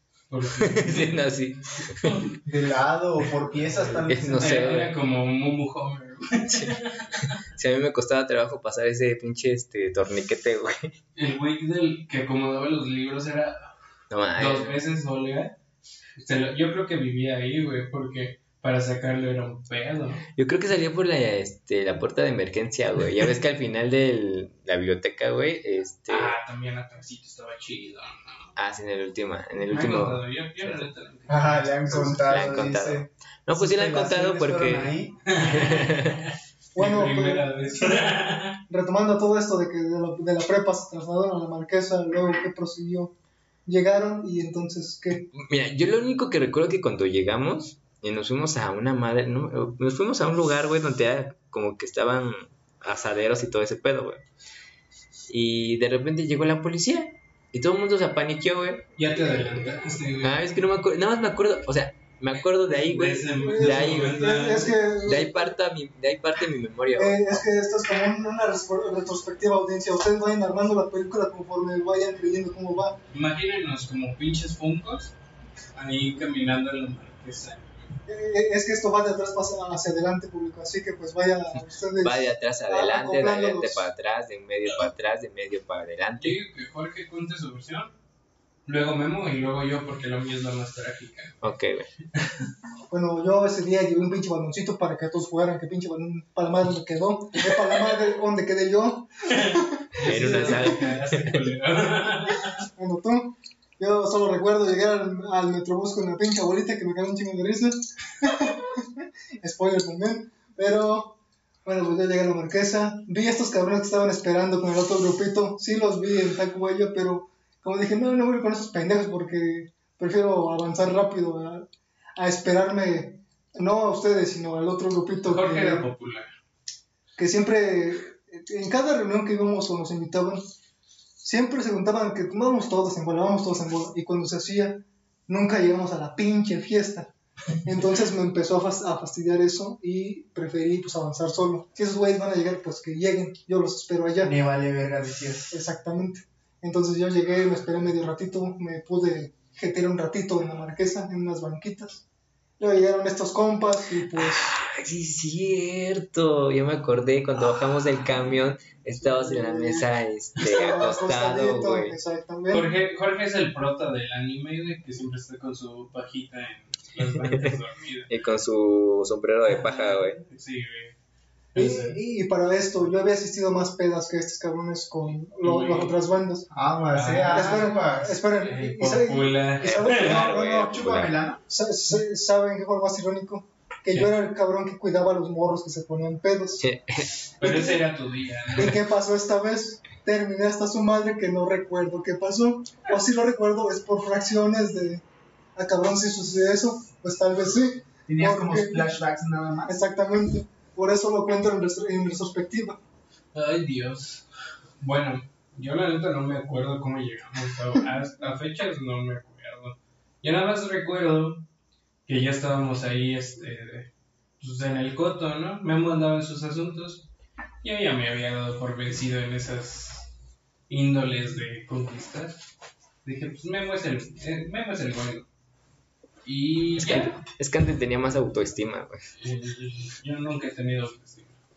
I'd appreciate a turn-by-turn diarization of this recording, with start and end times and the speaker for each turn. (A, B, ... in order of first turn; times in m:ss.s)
0:00.3-0:01.2 A
0:00.6-0:02.2 B
0:02.0-0:02.3 A
0:02.4-0:04.6 C
0:03.8-0:04.9 B
0:04.3-0:07.4 A
0:07.3-0:10.9 B
0:11.1-0:13.7 A
0:14.1-0:14.8 B
0:14.4-0:15.5 A
0:16.2-0:20.2 A
0:20.3-0:26.4 B
0:26.1-0:28.5 A
0:28.6-0:30.8 B
0:29.7-0:32.6 A
0:31.3-0:35.2 C
0:31.9-0:36.2 B
0:35.2-0:38.6 A
0:36.7-0:43.1 D
0:43.6-0:45.3 D
0:45.3-0:54.2 B
0:55.3-0:59.2 B
0:59.0-1:00.4 A
1:00.2-1:04.2 B
1:02.7-1:04.8 A
1:03.4-1:05.5 D
1:05.0-1:07.4 B
1:07.0-1:13.0 D
1:13.1-1:15.1 A
1:15.7-1:17.9 A
1:18.0-1:23.9 D
1:22.0-1:26.4 B
1:26.2-1:27.9 A
1:28.6-1:31.4 A
1:31.4-1:31.9 B
1:32.1-1:32.4 A
1:32.9-1:40.8 D
1:39.3-1:42.6 A
1:40.0-1:41.3 B
1:42.7-1:48.9 D
1:49.4-2:05.8 D
2:05.2-2:06.3 A
2:07.2-2:10.5 D
2:11.2-2:17.1 D
2:17.6-2:24.3 D
2:24.2-2:25.5 C
2:25.5-2:32.0 D
2:32.6-2:34.5 D
2:34.1-2:42.0 B
2:39.0-2:39.9 D
2:40.4-2:42.7 D
2:42.5-2:48.1 A
2:48.1-2:50.2 B
2:49.4-2:51.0 A
2:51.5-2:52.0 A
2:51.5-2:56.5 D
2:55.4-2:56.0 A
2:56.5-2:58.1 C
2:56.9-3:00.3 A
2:57.3-3:00.1 D
2:59.6-3:01.2 B
2:59.6-3:01.4 C
3:01.5-3:06.6 D
3:06.6-3:07.1 B
3:07.4-3:08.8 A
3:07.4-3:07.8 D
3:08.6-3:15.0 D
3:15.6-3:18.9 D
3:18.1-3:19.7 C
3:19.6-3:22.8 D
3:23.3-3:24.2 A
3:24.8-3:31.4 A
3:32.1-3:37.1 A
3:37.6-3:40.1 A
3:40.7-3:42.4 A
3:43.0-3:45.3 A
3:46.2-3:47.2 A
3:46.8-3:49.1 B
3:49.2-3:51.4 A